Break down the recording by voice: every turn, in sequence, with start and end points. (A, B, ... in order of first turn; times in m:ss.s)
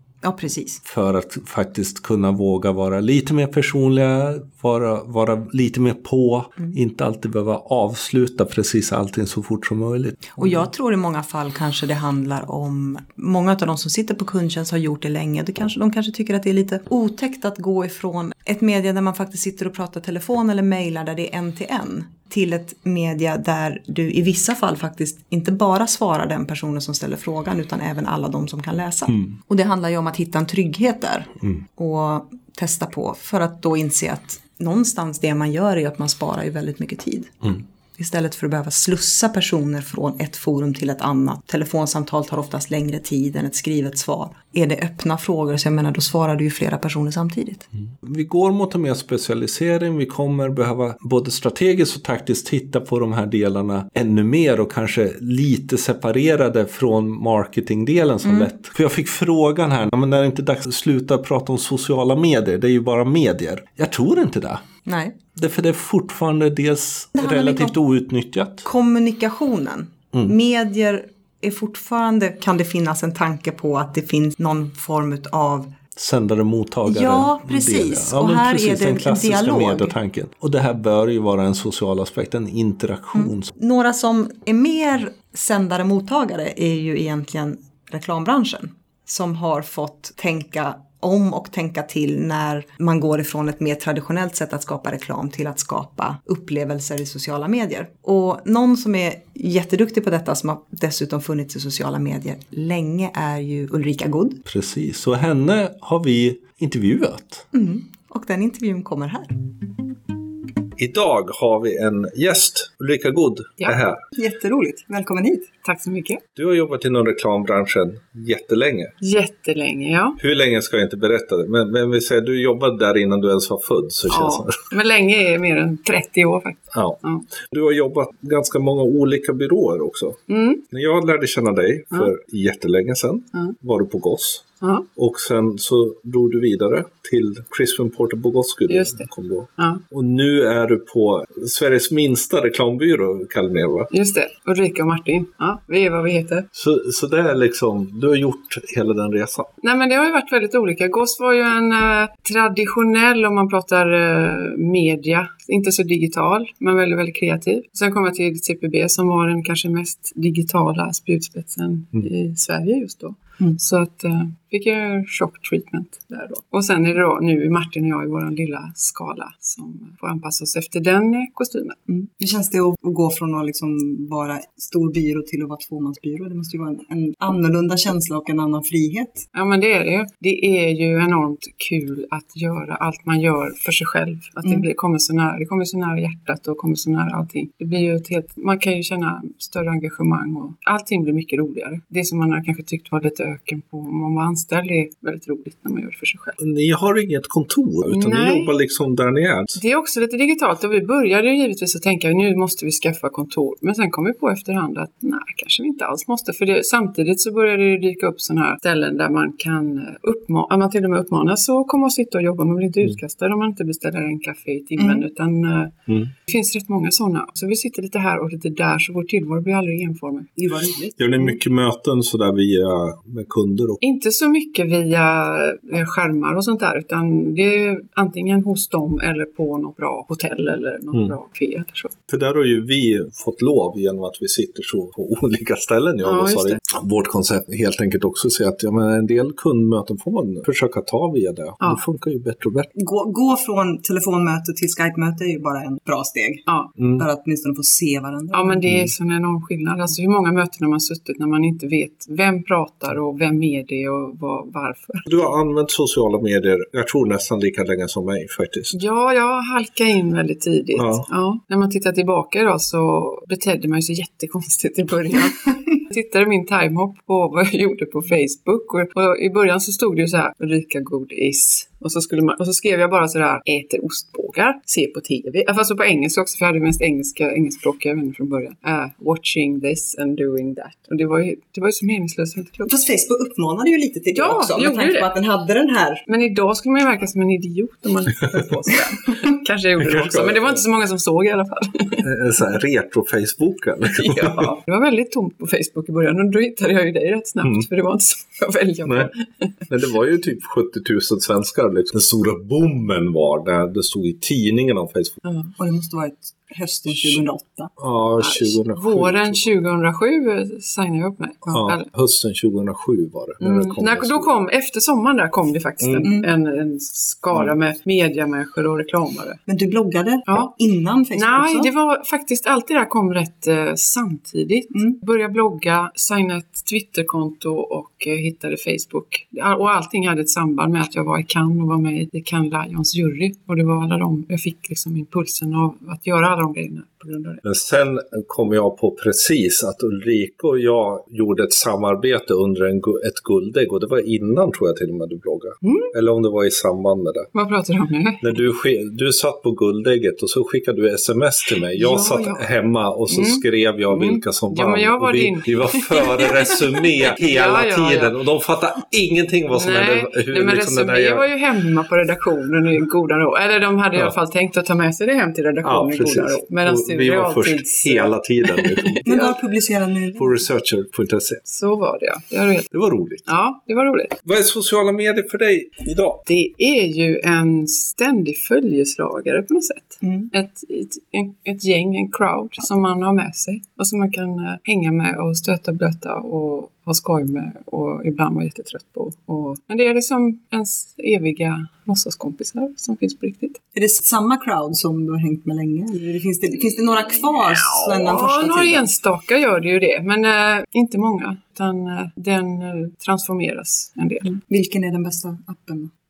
0:00.2-0:00.8 A
0:00.8-0:10.7 B
0:10.3-0:47.7 A
0:48.0-1:04.6 B
0:58.2-0:58.5 A
1:04.8-1:05.2 A
1:05.3-1:08.7 B
1:07.2-1:07.7 A
1:08.6-1:15.7 A
1:16.0-1:23.5 B
1:16.8-1:19.9 A
1:23.1-1:44.4 A
1:44.4-1:47.4 B
1:47.5-1:49.3 A
1:50.8-1:54.0 B
1:54.1-1:55.5 A
1:55.6-1:56.2 C
1:56.3-1:58.9 B
1:59.0-2:00.2 C
2:00.2-2:04.6 B
2:04.1-2:07.2 C
2:06.7-2:23.9 B
2:10.3-2:10.6 C
2:14.6-2:14.9 C
2:18.7-2:19.8 C
2:23.9-2:26.5 C
2:26.5-2:29.5 B
2:29.6-2:51.8 C
2:51.9-2:59.2 A
2:59.3-3:16.4 C
3:16.4-3:19.6 B
3:17.9-3:18.5 C
3:19.5-3:40.6 C
3:34.8-3:35.0 A
3:40.4-3:41.3 A
3:41.0-3:43.8 B
3:43.8-3:51.9 C
3:52.1-4:02.7 B
3:56.0-3:56.6 C
4:02.8-4:06.4 A
4:06.5-4:06.7 C
4:06.8-4:07.0 B
4:07.0-4:08.6 A
4:08.3-4:15.2 C
4:08.7-4:08.9 B
4:15.0-4:18.7 B
4:18.7-4:42.7 C
4:20.7-4:21.0 B
4:42.7-4:46.0 A
4:44.1-4:45.1 C
4:46.0-4:52.0 C
4:49.8-4:50.6 B
4:52.0-4:54.5 B
4:53.9-4:59.6 C
4:59.7-5:05.2 B
5:05.2-5:05.5 C
5:05.6-5:07.7 A
5:07.8-5:09.5 B
5:08.2-5:11.9 C
5:11.5-5:14.3 B
5:13.4-5:19.4 C
5:15.8-5:16.1 B
5:16.0-5:16.3 A
5:19.5-5:21.7 A
5:20.3-5:20.5 C
5:21.1-5:37.4 C
5:37.4-5:47.3 B
5:45.6-5:45.9 C
5:47.3-5:48.3 C
5:48.2-6:01.2 B
5:51.7-5:52.5 C
5:53.1-5:58.2 C
5:59.5-6:09.3 C
6:05.6-6:09.1 B
6:09.0-6:10.4 A
6:10.2-6:11.4 B
6:11.4-6:12.7 C
6:12.7-6:13.3 B
6:13.2-6:14.2 C
6:14.2-6:16.2 B
6:16.2-6:33.6 C
6:20.0-6:20.3 A
6:33.7-6:38.8 A
6:37.3-6:44.4 C
6:44.5-6:45.9 A